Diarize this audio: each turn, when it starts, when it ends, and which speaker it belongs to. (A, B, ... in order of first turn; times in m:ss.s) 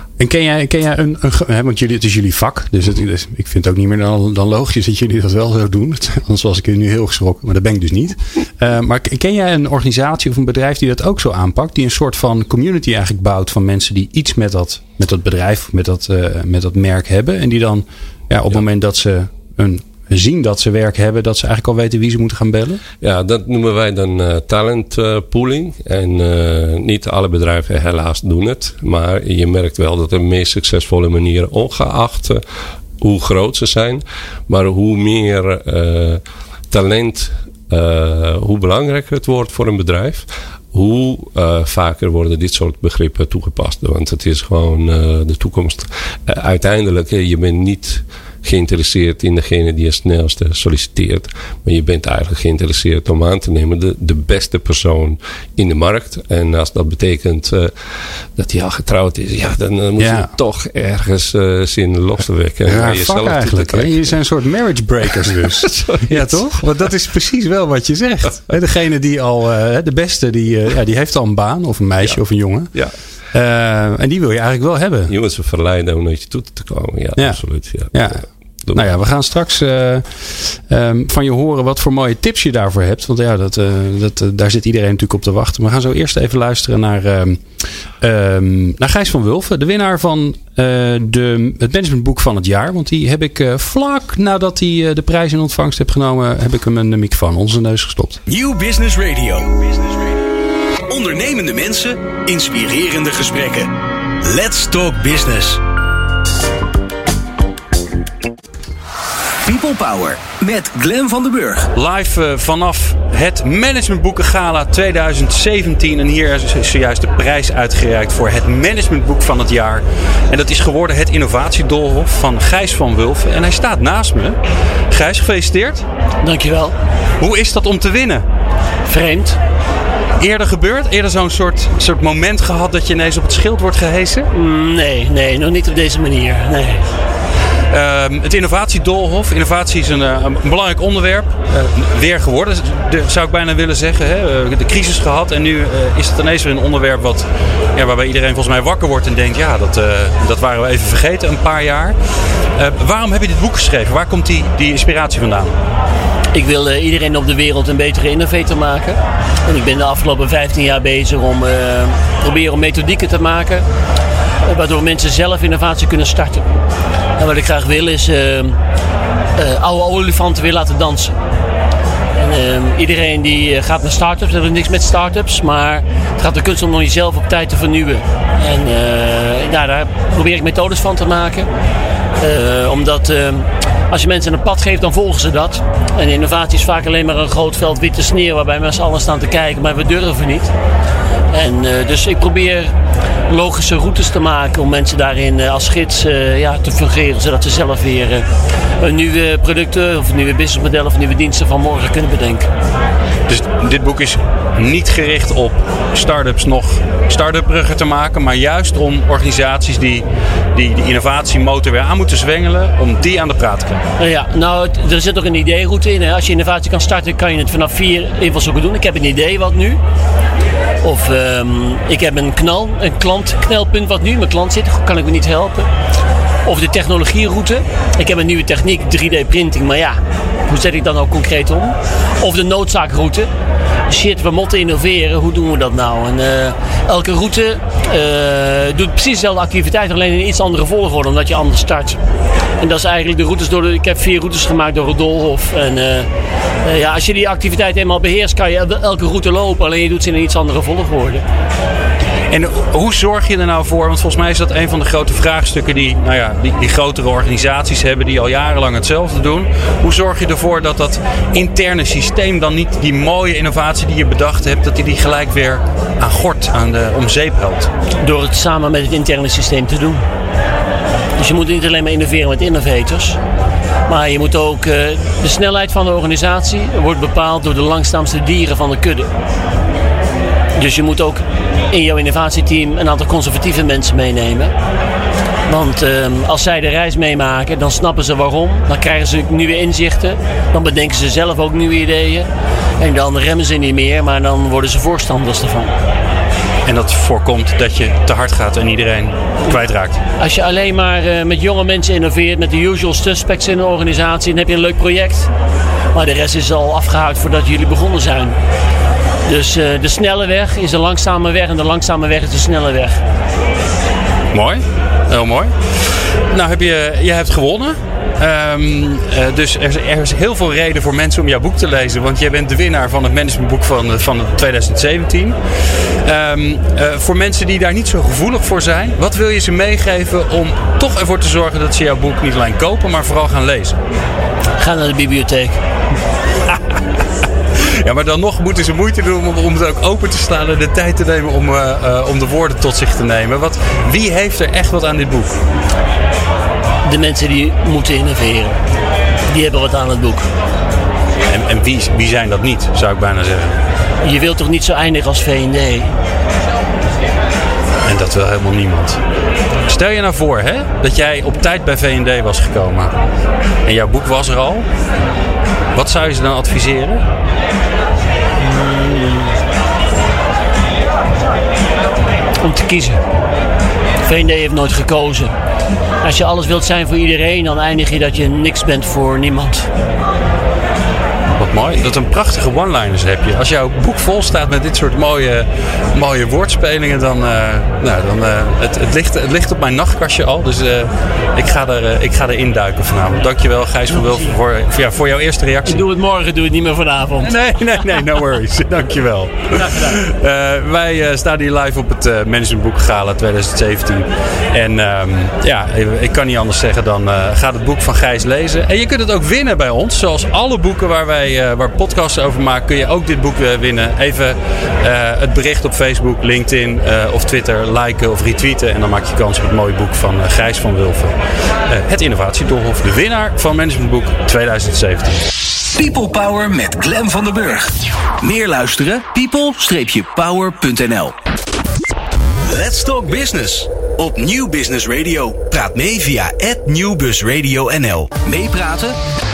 0:00.2-0:22.8 A
0:23.0-0:32.4 B
0:33.0-0:57.7 B
0:58.4-1:04.0 B
1:00.0-1:00.3 A
1:02.6-1:12.7 A
1:05.3-1:06.4 B
1:13.3-1:15.1 A
1:15.1-1:18.9 B
1:17.9-1:38.2 A
1:38.3-1:40.2 C
1:40.9-1:45.6 C
1:49.4-1:51.7 C
1:51.7-2:04.4 A
2:04.9-2:05.8 A
2:06.2-2:06.7 D
2:07.2-2:08.2 A
2:08.8-2:09.4 D
2:10.2-2:14.3 A
2:14.3-2:16.9 D
2:17.7-2:35.5 A
2:36.3-2:43.6 D
2:44.4-2:46.4 D
2:47.2-2:48.6 D
2:49.4-2:51.1 D
2:52.2-3:01.5 D
3:02.2-3:10.5 D
3:11.3-3:12.7 D
3:13.3-3:18.3 D
3:18.8-3:22.5 D
3:23.3-3:33.8 A
3:34.0-3:39.8 D
3:40.8-3:45.7 D
3:46.4-3:53.3 D
3:53.9-4:02.0 D
4:02.6-4:06.1 D
4:06.6-4:11.2 D
4:12.3-4:27.7 A
4:28.0-4:30.0 D
4:31.2-4:33.2 D
4:33.9-4:39.1 D
4:40.6-4:44.5 D
4:45.5-4:52.3 D
4:52.8-4:55.8 D
4:56.6-5:00.0 A
5:00.2-5:05.3 D
5:05.9-5:08.4 D
5:09.2-5:13.0 D
5:14.3-5:15.5 A
5:16.1-5:33.8 A
5:34.6-5:35.6 D
5:37.6-5:45.4 A
5:46.8-5:48.6 D
5:49.3-5:50.3 D
5:51.3-5:53.6 A
5:54.0-5:55.9 D
5:57.8-5:59.0 A
5:59.6-6:02.9 A
6:03.6-6:04.6 A
6:05.7-6:07.0 A
6:08.4-6:09.3 D
6:12.4-6:13.0 D
6:14.0-6:15.3 D
6:16.0-6:19.7 D
6:21.4-6:35.8 A
6:35.7-6:37.4 D
6:37.2-7:01.2 A
7:01.7-7:05.2 A
7:05.7-7:11.1 C
7:12.4-7:19.0 C